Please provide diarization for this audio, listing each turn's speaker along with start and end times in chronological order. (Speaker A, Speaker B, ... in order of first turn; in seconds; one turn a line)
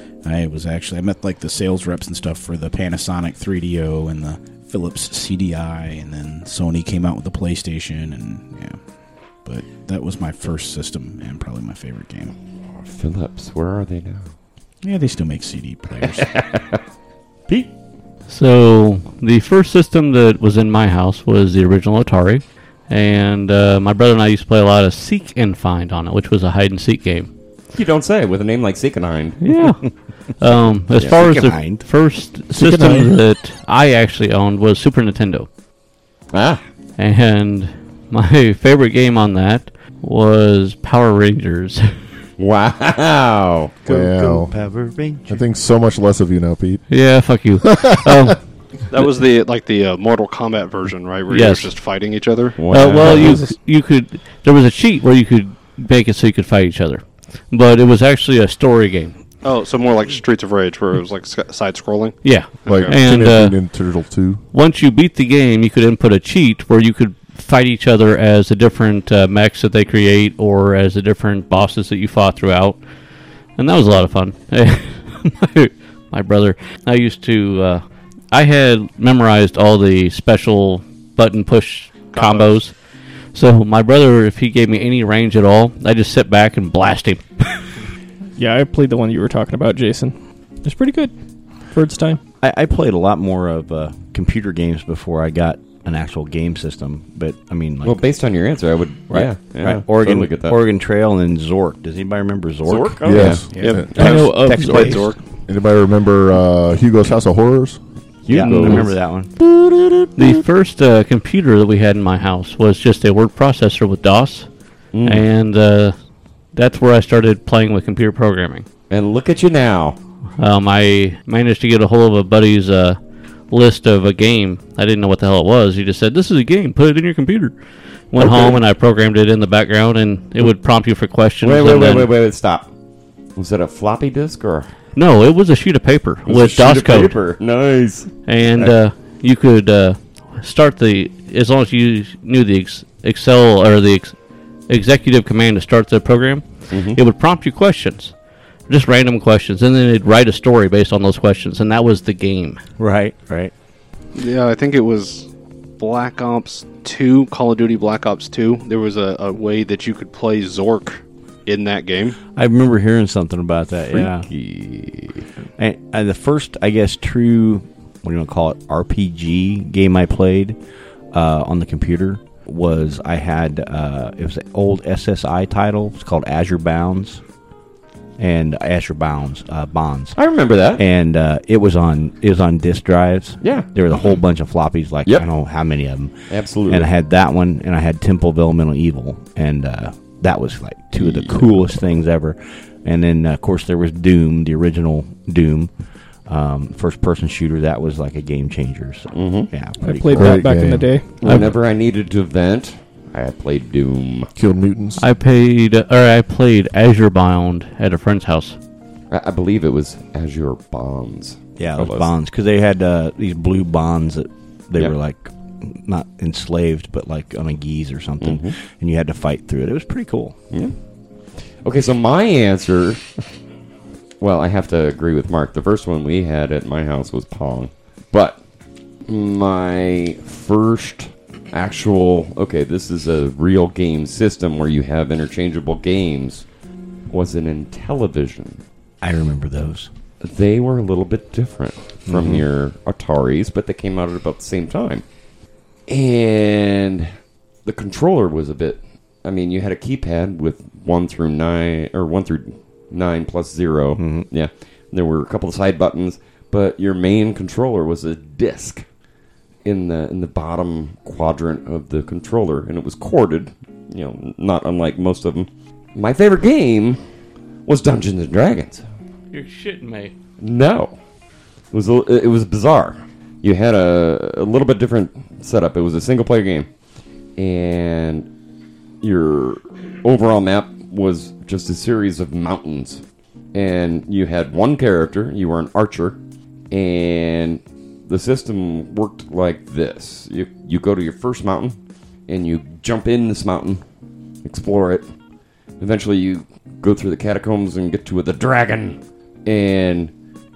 Speaker A: 0.2-8.8
Speaker A: 9.4-12.3
Speaker B: 12.8-14.3
Speaker A: 14.8-16.3
Speaker B: 16.0-16.8
Speaker C: 18.3-27.3
Speaker B: 27.7-29.4
Speaker C: 29.4-35.5
Speaker D: 31.0-31.9
Speaker E: 32.5-33.1
Speaker B: 36.3-36.6
Speaker C: 37.0-41.9
Speaker B: 42.4-43.7
Speaker D: 43.8-45.4
Speaker E: 43.9-44.5
Speaker E: 45.3-46.9
Speaker C: 46.9-48.4
Speaker E: 47.6-48.3
Speaker F: 48.9-52.7
Speaker C: 51.3-51.7
Speaker B: 52.6-53.4
Speaker C: 52.7-59.1
Speaker G: 53.0-53.5
Speaker F: 59.4-63.0
Speaker C: 62.2-63.6
Speaker E: 62.7-64.4
Speaker C: 64.5-72.8
Speaker C: 73.6-82.8
Speaker F: 82.1-82.5
Speaker C: 83.3-87.6
Speaker G: 88.4-91.1
Speaker G: 91.7-92.2
Speaker D: 92.4-98.0
Speaker B: 97.8-100.6
Speaker D: 99.1-105.1
Speaker B: 102.7-103.4
Speaker E: 103.0-104.3
Speaker A: 103.5-103.8
Speaker F: 103.6-105.2
Speaker G: 103.9-105.2
Speaker E: 105.5-107.8
Speaker B: 108.3-109.0
Speaker D: 108.3-109.8
Speaker C: 108.5-108.8
Speaker C: 110.2-114.5
Speaker B: 114.9-115.2
Speaker C: 115.0-116.0
Speaker C: 116.5-118.7
Speaker B: 118.9-120.0
Speaker C: 120.4-123.0
Speaker C: 123.5-127.5
Speaker C: 128.1-132.1
Speaker B: 128.2-128.6
Speaker B: 131.4-132.7
Speaker B: 133.4-134.7
Speaker C: 134.9-137.2
Speaker B: 136.3-138.7
Speaker C: 138.3-144.2
Speaker C: 144.7-148.1
Speaker B: 146.7-147.0
Speaker C: 148.7-152.6
Speaker D: 152.8-153.5
Speaker F: 154.2-162.2
Speaker D: 162.3-164.3
Speaker B: 163.9-165.3
Speaker D: 165.6-170.6
Speaker D: 171.1-177.2
Speaker D: 178.2-180.2
Speaker B: 180.2-180.8
Speaker D: 180.8-186.1
Speaker B: 183.4-184.2
Speaker B: 186.3-186.9
Speaker D: 186.7-195.7
Speaker B: 191.0-191.7
Speaker D: 196.2-200.5
Speaker B: 199.1-199.5
Speaker G: 199.8-201.1
Speaker E: 200.1-200.9
Speaker B: 201.2-204.3
Speaker C: 201.2-201.6
Speaker E: 204.4-205.0
Speaker C: 205.0-208.6
Speaker B: 209.1-212.1
Speaker D: 211.6-220.4
Speaker B: 218.2-218.6
Speaker B: 221.6-223.2
Speaker B: 224.2-228.4
Speaker B: 229.1-236.5
Speaker B: 237.1-238.6
Speaker D: 239.0-239.9
Speaker B: 240.2-245.0
Speaker D: 242.1-242.4
Speaker B: 245.9-247.1
Speaker B: 247.7-258.9
Speaker D: 254.0-254.3
Speaker B: 259.6-267.0
Speaker B: 267.7-268.8
Speaker C: 269.3-270.1
Speaker B: 270.4-270.9
Speaker B: 271.7-276.7
Speaker B: 277.4-278.3
Speaker B: 279.0-283.0
Speaker B: 283.5-286.2
Speaker B: 286.7-291.8
Speaker B: 292.3-293.8
Speaker B: 294.4-295.1
Speaker B: 295.8-300.1